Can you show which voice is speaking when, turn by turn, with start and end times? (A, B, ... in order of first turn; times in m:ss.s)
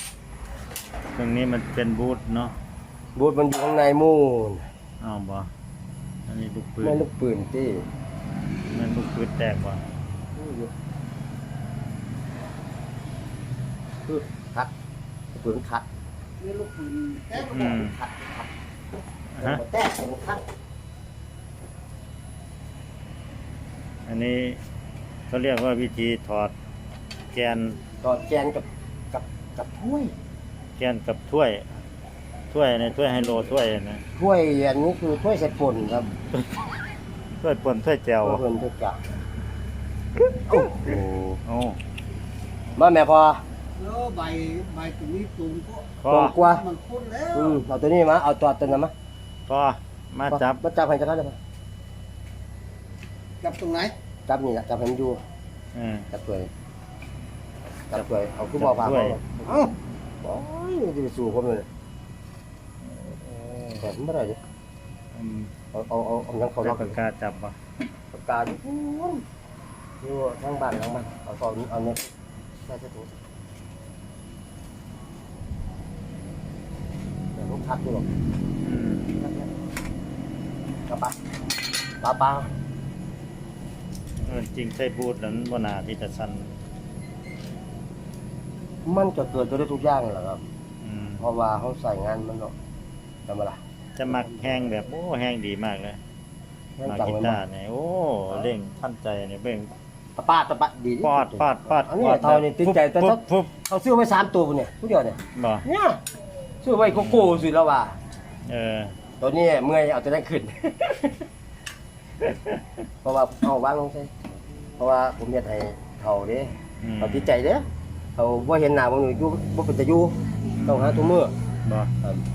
0:01.2-0:02.6 A
0:03.2-0:04.6 B
0:05.0-0:05.5 A
0:06.3-0:07.0 A
0:06.8-0:07.8 B
0:08.7-0:09.8 A
0:10.4-0:10.7 B
0:14.1-0:14.7 B
0:15.3-0:15.8 B
0:16.4-0:17.6 C
0:17.3-0:18.5 B
0:17.5-0:18.0 A
0:19.4-0:19.6 A
0:19.4-0:20.4 B
0:24.1-0:24.6 A
0:25.3-0:26.5 A
0:27.3-0:27.8 A
0:28.0-0:30.2 B
0:30.8-0:31.7 A
0:32.5-0:34.0 A
0:34.2-0:36.1 B
0:37.4-0:38.4 A
0:38.2-0:39.0 B
0:40.5-0:41.0 B
0:40.7-0:41.8 A
0:42.8-0:43.4 B
0:43.8-0:46.0 C
0:46.0-0:46.4 A
0:46.1-0:46.7 B
0:46.5-0:47.5 C
0:47.3-0:48.9 B
0:49.5-0:50.6 A
0:50.3-0:51.4 B
0:53.4-0:54.0 C
0:54.3-0:55.2 B
0:55.8-0:56.1 A
0:56.1-0:56.5 B
0:57.9-1:01.7 B
0:58.6-0:59.7 A
1:02.8-1:03.8 A
1:03.8-1:04.4 B
1:05.1-1:05.5 A
1:05.7-1:07.0 B
1:06.6-1:07.6 A
1:08.1-1:09.2 B
1:10.0-1:12.1 B
1:12.6-1:13.1 B
1:17.4-1:18.1 B
1:18.6-1:19.1 A
1:19.2-1:19.5 B
1:20.9-1:21.2 B
1:22.0-1:22.5 B
1:24.2-1:26.6 A
1:28.8-1:30.4 B
1:30.8-1:31.3 A
1:31.2-1:32.5 B
1:33.3-1:33.6 B
1:34.0-1:36.0 A
1:34.1-1:34.5 B
1:36.8-1:37.4 B
1:36.8-1:39.7 A
1:40.2-1:46.0 B
1:41.0-1:43.5 A
1:45.4-1:45.6 A
1:46.6-1:48.0 B
1:46.9-1:47.4 A
1:48.5-1:49.0 A
1:49.2-1:51.2 B
1:53.0-1:54.1 B
1:54.8-1:57.6 B
1:56.8-1:57.3 A
1:58.2-2:01.3 B
2:00.6-2:01.9 A